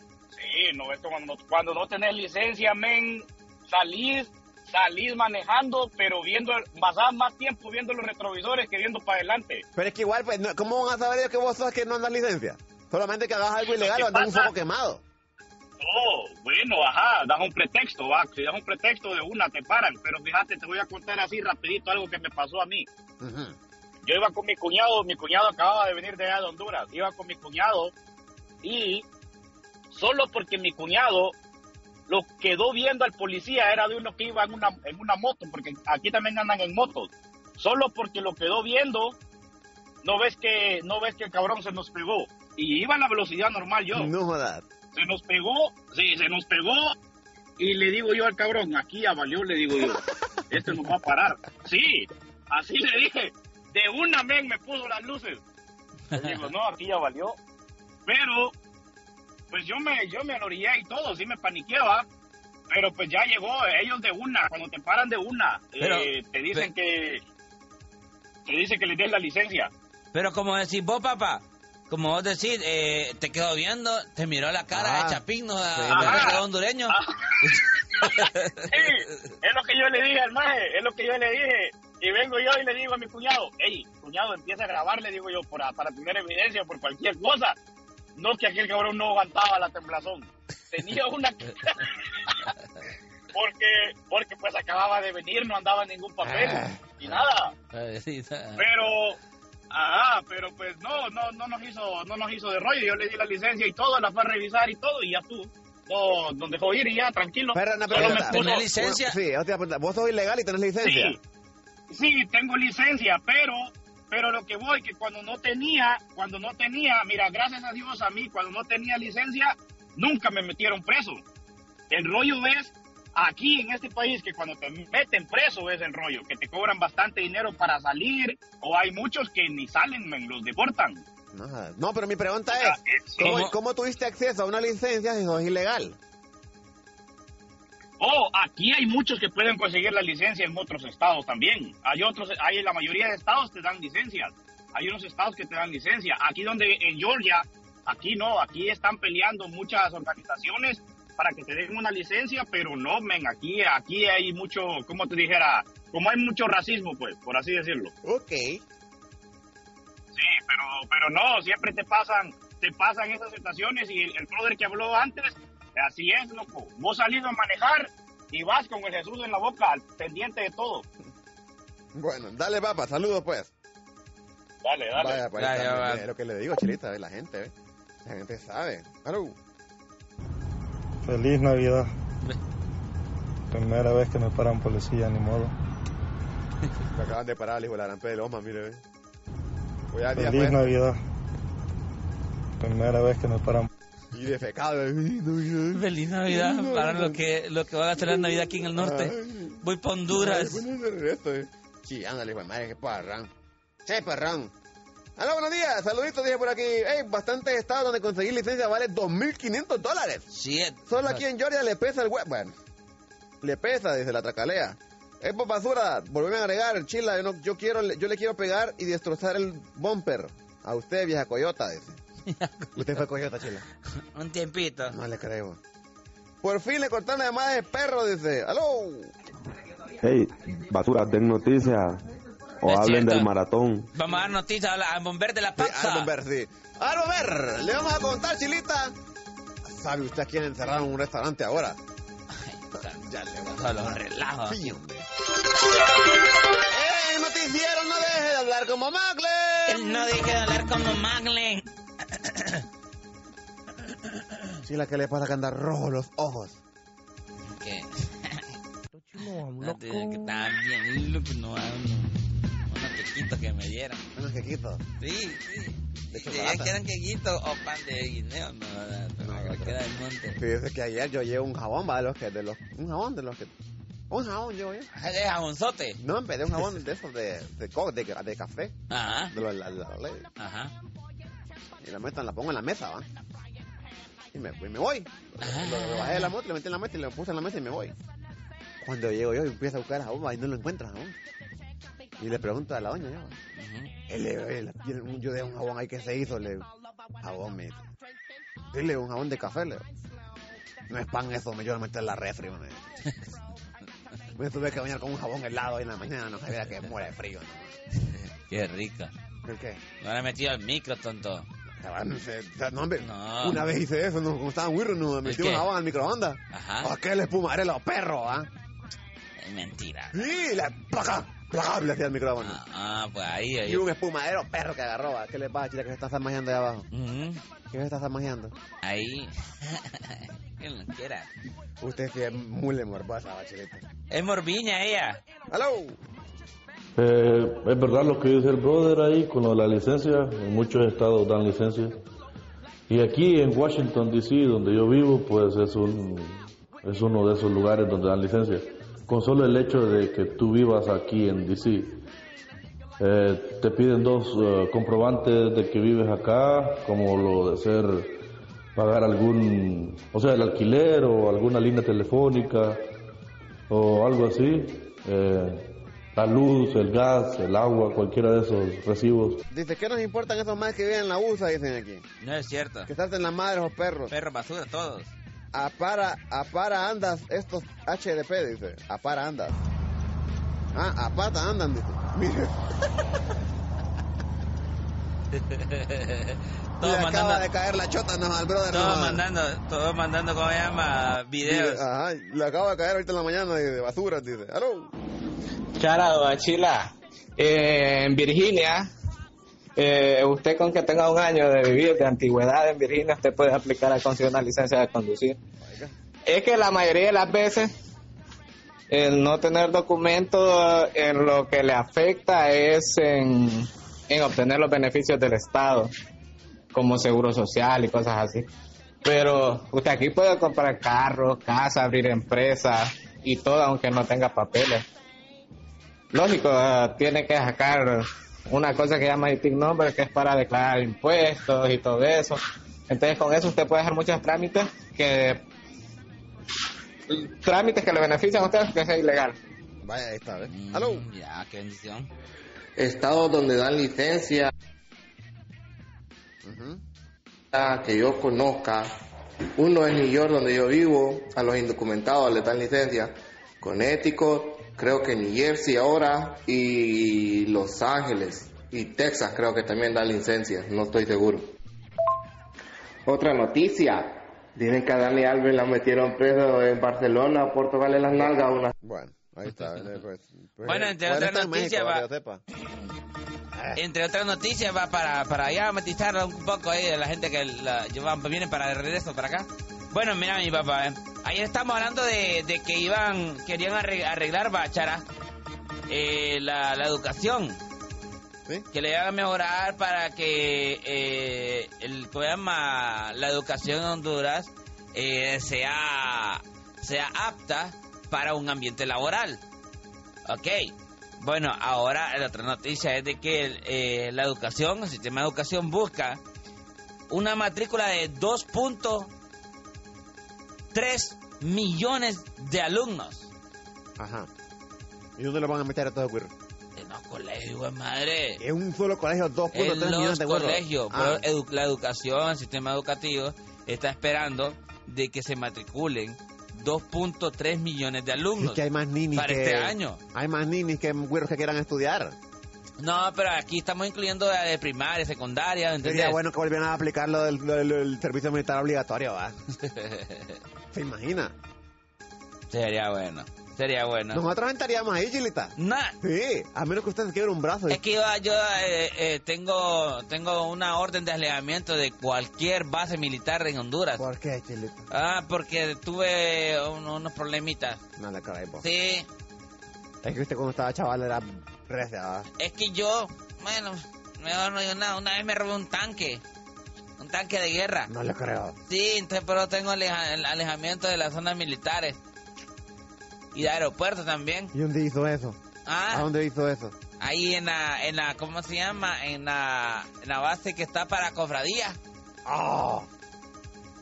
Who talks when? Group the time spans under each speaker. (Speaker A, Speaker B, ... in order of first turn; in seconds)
Speaker A: 0.3-9.7, 13.7-14.5, 15.8-22.9, 24.0-27.9, 28.6-29.1, 29.9-31.4, 32.1-39.2, 40.0-44.1, 44.9-47.0, 47.6-55.4, 56.1-57.4, 58.1-58.5, 59.5-62.1, 62.7-67.2, 68.5-69.7, 75.9-77.4, 78.0-87.6, 88.2-92.4, 93.3-97.5, 98.6-99.2, 99.7-108.7, 110.8-111.2, 111.9-121.2, 121.9-131.0, 132.5-133.4, 138.0-157.9, 160.1-170.9, 174.6-175.2
Speaker B: 9.8-15.0, 23.2-23.6, 43.9-44.6, 74.7-75.2, 75.7-76.3, 96.2-96.9, 107.5-111.2, 131.3-136.0, 158.0-158.6, 171.9-173.5, 175.0-177.5, 178.0-179.4, 186.9-188.8, 189.9-190.8, 194.1-197.2, 198.0-203.3, 203.9-204.5, 205.2-210.3, 210.9-212.5, 213.4-222.0, 222.8-223.7, 224.9-225.6, 226.4-229.1, 235.6-238.9, 239.7-241.8, 242.8-245.1, 246.7-250.1, 254.6-256.6, 264.1-264.8, 266.1-266.8, 269.2-269.8, 270.4-273.5, 274.1-274.9, 276.0-278.8, 279.3-280.3, 281.8-283.1, 284.3-287.9, 288.8-291.2, 292.2-293.4, 294.1-296.7, 297.2-297.9, 298.7-299.8, 300.9-302.9, 304.4-307.7, 309.4-309.8, 311.8-318.5, 320.1-322.6, 323.6-326.9, 327.7-328.6, 331.8-333.9, 335.5-336.0, 369.5-372.1, 372.9-374.1, 375.5-379.6, 380.7-382.6, 386.8-389.2, 391.4-394.9, 405.6-405.9, 439.8-441.1, 446.4-446.8, 468.8-472.4, 473.5-473.8, 514.0-514.3, 515.2-516.3, 518.4-521.2, 528.4-532.2, 535.8-539.4, 540.7-541.3, 544.1-547.8, 554.0-554.9, 558.0-558.7, 560.0-562.3, 567.9-568.6, 574.5-575.4, 575.9-576.8, 582.3-582.9
Speaker C: 56.2-56.5, 65.8-66.7, 70.1-79.0, 97.7-98.7, 107.9-109.2, 133.2-133.5, 175.4-176.0, 195.7-200.6, 210.3-211.2, 222.3-222.7, 224.2-225.0, 232.6-233.3, 233.9-236.1, 242.5-244.6, 249.7-252.6, 257.5-258.4, 259.2-262.1, 262.7-264.0, 265.0-270.4, 274.9-276.0, 278.9-279.3, 280.4-280.7, 285.4-286.3, 293.6-293.9, 308.1-309.1, 310.0-311.5, 313.0-313.6, 315.2-315.7, 316.5-316.9, 319.4-320.3, 322.4-323.9, 326.9-327.4, 328.8-331.3, 334.1-335.2, 372.2-372.9, 374.1-375.1, 385.4-387.4, 388.7-391.8, 440.5-442.1, 470.6-472.1, 473.8-485.0, 485.9-487.6, 488.7-499.4, 500.3-506.2, 507.1-509.1, 510.7-513.3, 516.8-518.4, 519.5-528.6, 529.1-530.0, 532.8-536.2, 539.6-540.4, 542.5-544.2, 545.6-546.0, 547.7-554.0, 554.9-557.8, 558.6-559.1, 562.4-566.2, 567.0-567.9, 568.7-572.0, 573.3-574.5, 575.7-576.1, 577.0-581.8
Speaker D: 181.0-181.9, 183.5-185.5, 190.2-191.0, 192.6-193.7
Speaker E: 230.0-232.0, 232.6-233.9
Speaker F: 337.0-342.0, 342.9-352.0, 353.0-358.1, 358.8-362.8, 363.7-369.4
Speaker G: 395.8-398.9, 399.8-405.4, 406.3-407.7, 408.9-415.9, 416.7-418.5, 419.0-424.9, 426.1-435.4, 437.1-439.4
Speaker H: 442.8-444.5, 447.6-448.9, 449.6-461.5, 463.1-464.1, 464.6-468.6